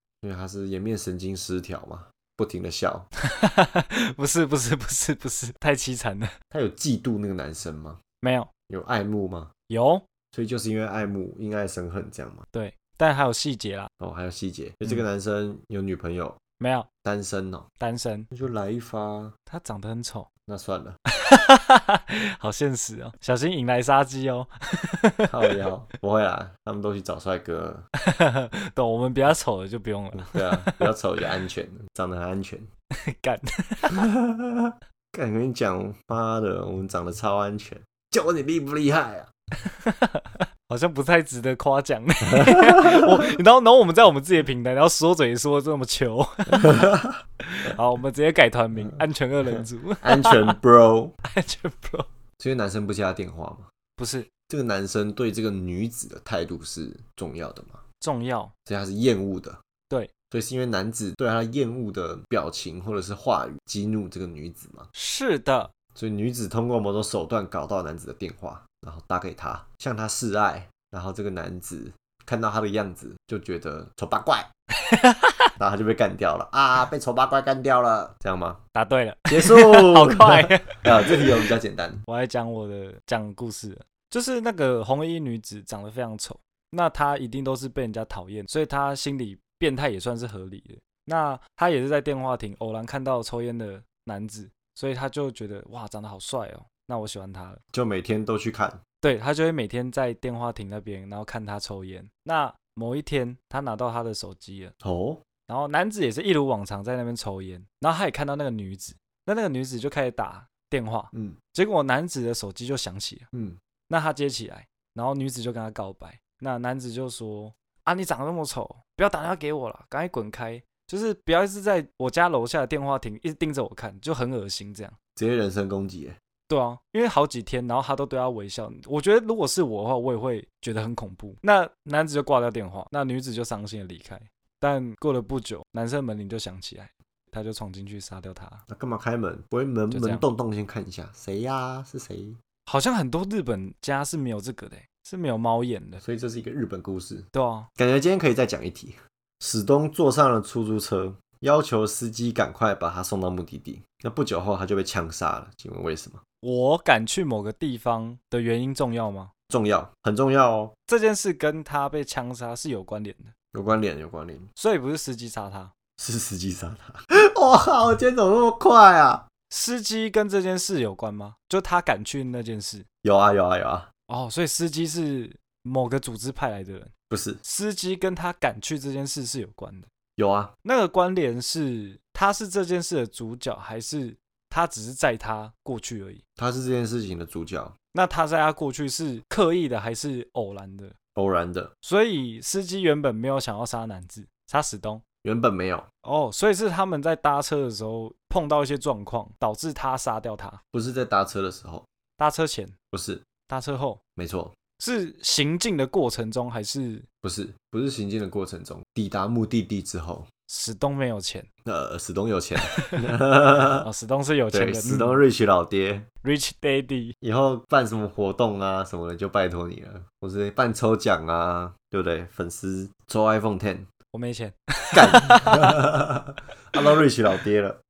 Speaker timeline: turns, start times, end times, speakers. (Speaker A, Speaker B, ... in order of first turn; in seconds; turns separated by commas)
Speaker A: 0.2-3.1, Speaker B: 3.2-6.3, Speaker A: 6.5-8.0, Speaker B: 8.2-8.5, Speaker A: 8.7-9.5, Speaker B: 9.7-10.0, Speaker A: 10.3-12.4, Speaker B: 12.5-13.9, Speaker A: 14.0-16.4, Speaker B: 16.6-16.9, Speaker A: 17.0-17.7, Speaker B: 17.8-18.3, Speaker A: 18.3-19.3, Speaker B: 19.5-20.3, Speaker A: 20.5-21.0, Speaker B: 21.1-25.6, Speaker A: 25.3-27.9, Speaker B: 28.0-30.9, Speaker A: 30.1-32.7, Speaker B: 33.0-34.1, Speaker A: 33.9-39.3, Speaker B: 39.6-46.9, Speaker A: 42.3-43.3, Speaker A: 46.5-47.2, Speaker B: 47.4-50.6, Speaker A: 50.0-51.1, Speaker B: 51.2-52.1, Speaker A: 52.4-53.7, Speaker B: 54.0-54.3, Speaker A: 54.5-57.8, Speaker B: 58.0-58.5, Speaker A: 58.6-59.6, Speaker A: 60.3-64.9, Speaker B: 64.9-65.7, Speaker A: 65.9-74.5, Speaker B: 74.8-75.5, Speaker A: 75.6-78.6, Speaker B: 78.7-81.4, Speaker A: 79.3-82.0, Speaker B: 82.1-97.6, Speaker A: 97.7-98.8, Speaker B: 99.0-104.7, Speaker A: 104.8-105.2, Speaker B: 105.5-113.3, Speaker A: 111.1-111.4, Speaker A: 113.3-113.6, Speaker B: 113.9-125.0, Speaker A: 125.2-126.2, Speaker B: 126.5-138.6, Speaker A: 138.7-142.4, Speaker B: 139.9-140.2, Speaker B: 142.7-146.0, Speaker A: 146.0-156.2, Speaker B: 147.3-147.7, Speaker B: 156.4-159.3, Speaker A: 159.5-160.7, Speaker B: 160.9-163.3, Speaker A: 163.5-164.5, Speaker B: 164.6-165.7, Speaker A: 166.0-169.2, Speaker B: 169.5-172.8, Speaker A: 173.0-173.9, Speaker B: 174.1-176.9, Speaker A: 177.1-177.4, Speaker B: 177.4-179.9, Speaker A: 180.2-180.5, Speaker B: 180.6-186.2, Speaker A: 186.4-187.7, Speaker B: 187.9-190.9, Speaker A: 191.2-191.7, Speaker B: 191.8-195.0, Speaker A: 195.2-195.9, Speaker B: 196.0-200.6, Speaker A: 200.7-201.8, Speaker B: 202.2-202.8, Speaker A: 202.9-203.2, Speaker B: 203.5-204.0, Speaker A: 204.2-204.5, Speaker B: 204.8-207.1, Speaker A: 207.2-210.3, Speaker B: 210.5-211.5, Speaker A: 211.7-213.9, Speaker B: 212.6-213.1, Speaker B: 213.8-215.2, Speaker A: 214.5-216.1, Speaker B: 216.2-217.1, Speaker A: 217.2-223.9, Speaker B: 224.1-225.8, Speaker A: 224.9-227.8